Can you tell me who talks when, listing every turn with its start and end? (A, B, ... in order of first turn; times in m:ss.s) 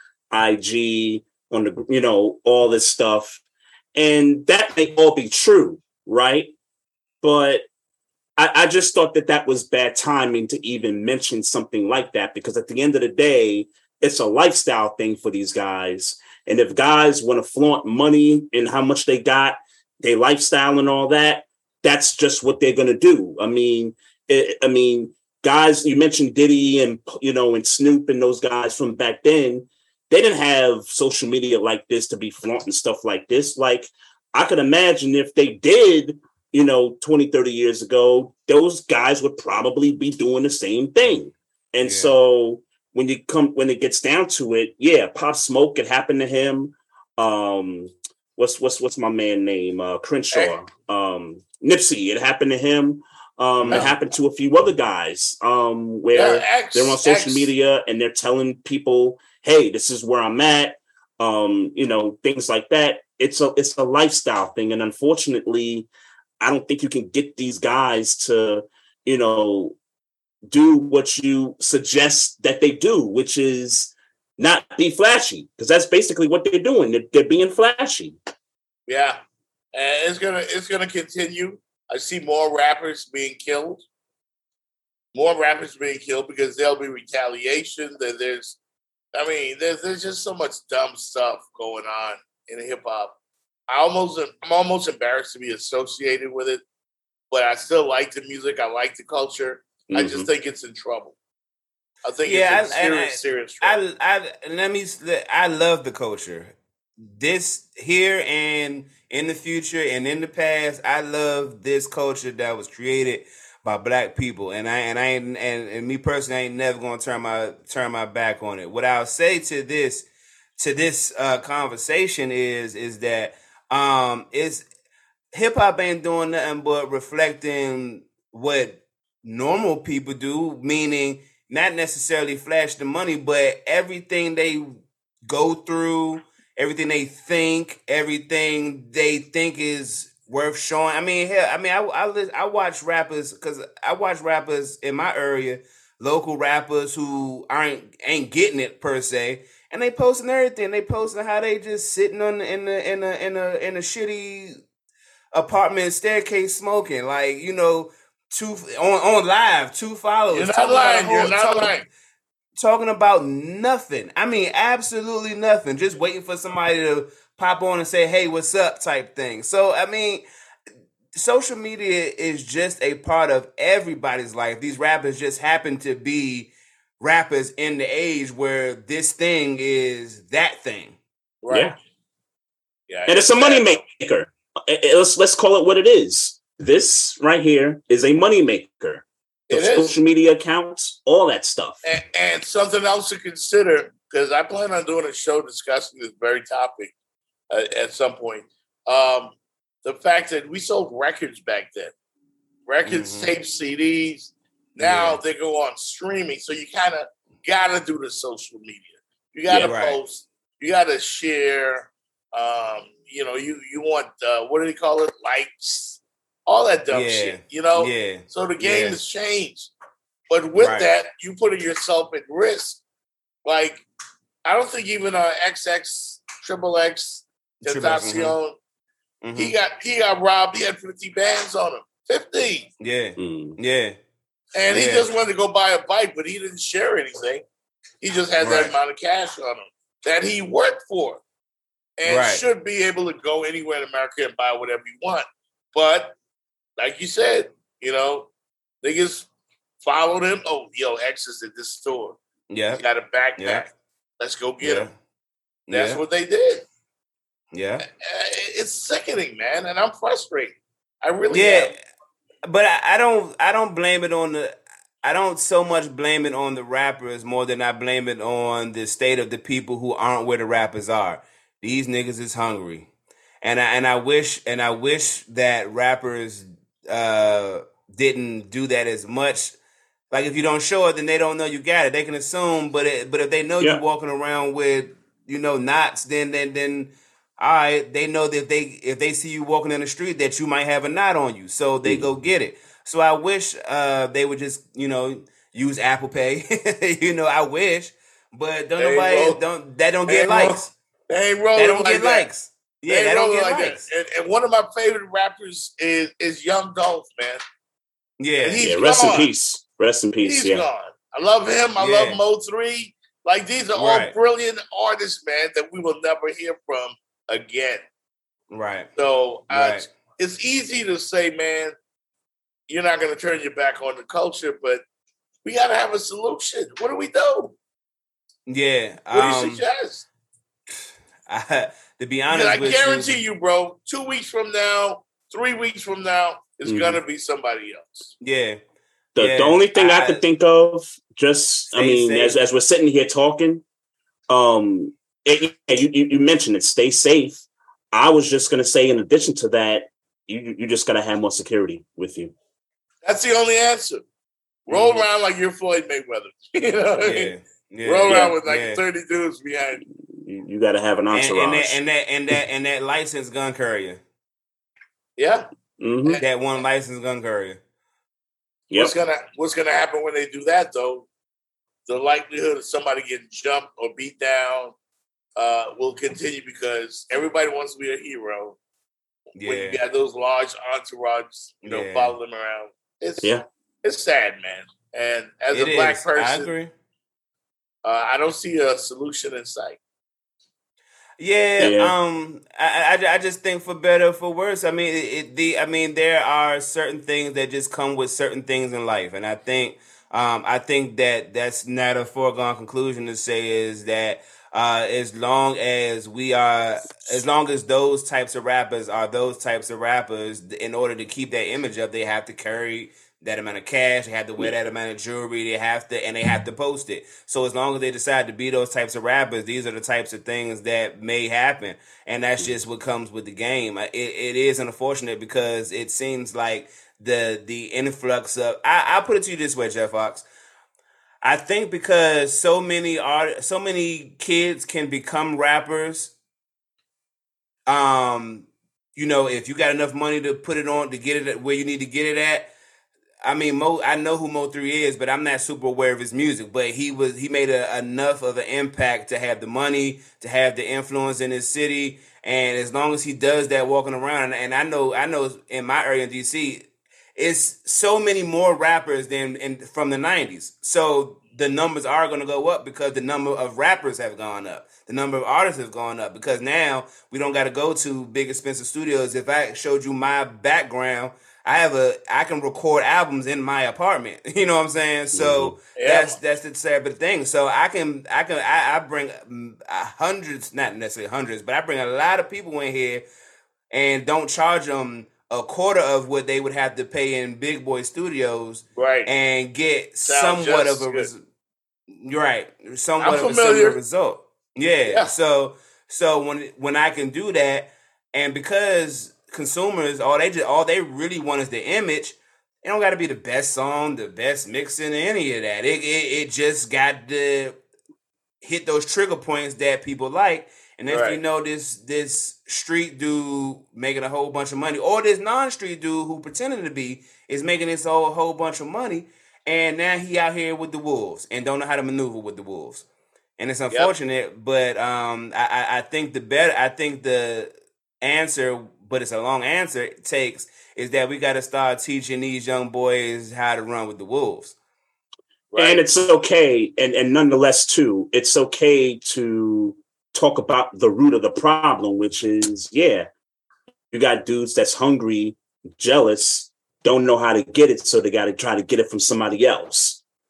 0:00.3-0:03.4 A
0:03.9-0:06.5 A
0:07.2-0:07.6 A
0:08.4-1:05.9 A
0:41.8-0:42.1 B
0:53.6-0:53.9 C
0:56.1-0:57.5 C
1:06.4-1:09.8 A
1:10.5-1:18.2 A
1:18.9-1:19.2 C
1:19.7-1:23.8 C
1:25.1-1:28.6 C
1:29.1-1:33.2 C
1:33.7-1:36.6 C
1:37.3-1:41.2 C
1:39.9-1:40.3 A
1:42.0-1:43.8 C
1:42.2-2:00.0 B
2:00.6-2:04.6 B
2:05.3-2:34.6 B
2:35.3-2:41.8 B
2:40.3-2:41.8 C
2:42.6-2:50.2 B
2:51.1-3:01.0 B
3:01.4-3:01.7 C
3:02.9-3:03.8 C
3:03.0-3:11.8 A
3:09.5-3:10.0 C
3:11.8-3:16.9 C
3:17.5-3:21.9 C
3:22.6-3:39.7 C
3:22.8-3:23.3 B
3:24.8-3:25.2 B
3:29.5-3:29.7 A
3:29.6-3:30.0 B
3:36.9-3:39.0 B
3:40.3-3:42.8 C
3:40.5-3:40.9 B
3:43.4-3:43.8 C
3:44.4-3:48.6 C
3:47.6-3:48.4 B
3:49.2-3:49.5 B
3:49.4-3:52.7 C
3:52.8-3:54.0 B
3:53.2-3:53.6 A
3:54.5-3:57.4 C
3:54.7-3:55.1 B
3:58.0-4:01.2 C
3:58.4-3:58.8 B
4:02.0-4:06.2 C
4:02.0-4:02.4 B
4:06.8-4:08.3 C
4:08.8-4:09.3 C
4:09.8-4:12.2 C
4:12.5-4:12.8 B
4:12.7-4:14.9 C
4:13.4-4:13.6 B
4:14.6-4:14.9 B
4:15.7-4:16.0 B
4:15.7-4:16.6 C
4:17.5-4:17.8 B
4:17.8-4:21.7 C
4:21.3-4:21.8 B
4:22.4-4:32.9 B
4:33.4-4:39.6 B
4:40.1-5:00.7 B
4:58.8-4:59.4 C
5:00.1-5:02.3 C
5:01.5-5:03.8 B
5:02.9-5:07.4 C
5:08.2-5:08.8 B
5:08.4-5:09.3 C
5:08.6-5:10.6 A
5:10.2-5:17.8 C
5:11.8-5:12.2 B
5:13.7-5:14.1 B
5:18.5-5:18.9 B
5:18.9-5:21.7 C
5:19.5-5:19.8 B
5:22.7-5:24.8 C
5:25.4-5:27.5 C
5:28.5-5:29.6 B
5:29.1-5:30.0 C
5:31.3-5:33.2 B
5:32.3-5:38.1 C
5:36.6-5:37.0 A
5:38.2-5:38.6 B
5:39.1-5:43.6 A
5:39.2-5:40.2 B
5:41.7-5:42.4 B
5:44.3-5:52.3 A
5:53.0-5:54.0 C
5:54.7-5:57.3 C
5:54.7-5:55.0 B
5:57.0-5:58.8 B
5:57.8-5:59.8 C
5:58.1-5:58.4 A
6:00.0-6:01.8 A
6:01.1-6:04.0 B
6:05.2-6:05.5 C
6:05.8-6:06.2 A
6:06.2-6:07.6 B
6:08.7-6:11.1 C
6:11.9-6:14.7 C
6:15.4-6:18.6 C
6:19.4-6:19.8 B
6:19.4-6:26.5 C
6:21.6-6:22.2 B
6:25.5-6:26.7 B
6:27.8-6:29.8 C
6:31.2-7:10.2 B
6:31.6-6:31.9 A
7:11.2-7:16.1 B
7:17.7-7:22.5 B
7:23.2-8:03.0 B
7:55.1-7:55.6 A
7:55.7-7:56.2 C
8:03.7-8:11.2 B
8:08.8-8:09.1 C
8:10.0-8:11.1 C
8:11.9-8:27.6 B
8:13.0-8:13.8 C
8:14.9-8:15.1 C
8:28.4-8:42.8 B
8:30.9-8:31.2 C
8:43.4-8:54.5 B
8:55.5-8:55.8 C
8:55.6-9:03.1 A
9:03.9-9:10.0 A